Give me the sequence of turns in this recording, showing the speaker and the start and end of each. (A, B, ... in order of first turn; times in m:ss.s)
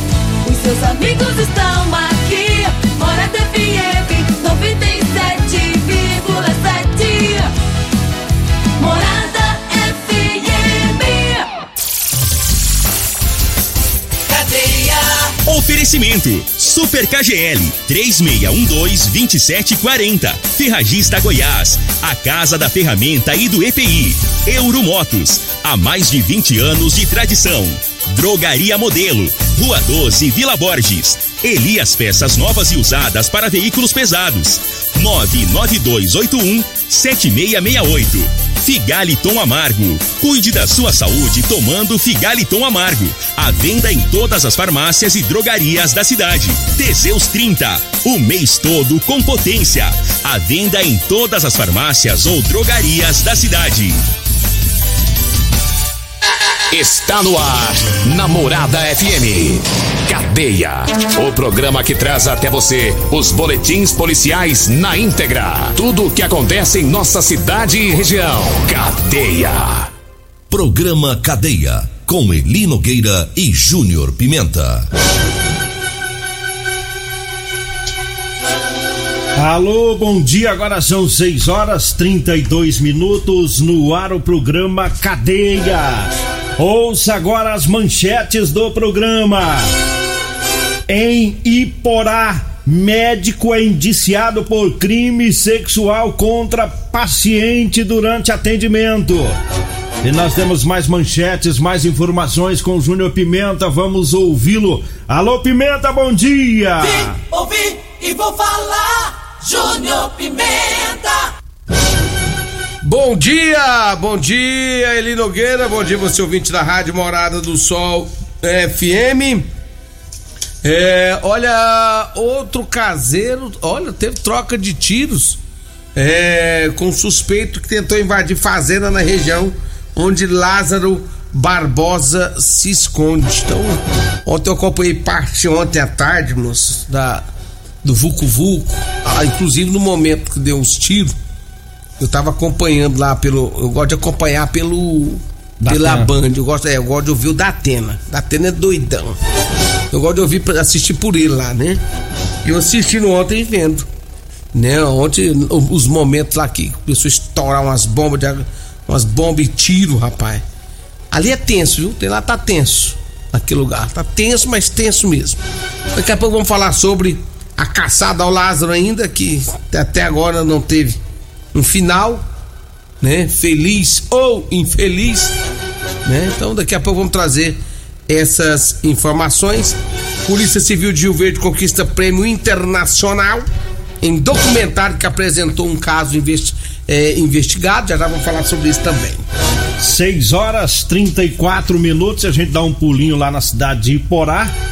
0:00.4-0:07.5 A
0:08.8-0:11.5 A
0:14.3-0:15.4 A
0:15.4-0:54.0 B
0:56.7-1:09.9 C
1:10.5-1:14.9 D
1:19.4-1:29.7 E
1:30.9-1:39.4 E
1:40.0-1:47.2 E
1:46.9-1:51.3 A
1:52.8-1:59.5 F
2:00.6-2:05.4 F
2:06.0-2:17.3 F
2:17.8-2:21.1 F
2:22.0-2:29.2 F
2:25.6-2:26.1 E
2:29.9-2:31.8 F
2:32.4-2:33.9 F
2:34.5-2:40.4 F
2:41.1-2:45.4 F
2:45.9-2:51.0 F
2:51.5-2:52.2 F
2:53.0-2:55.4 F
2:56.0-3:03.5 F
3:04.0-3:09.3 F
3:09.8-3:14.5 E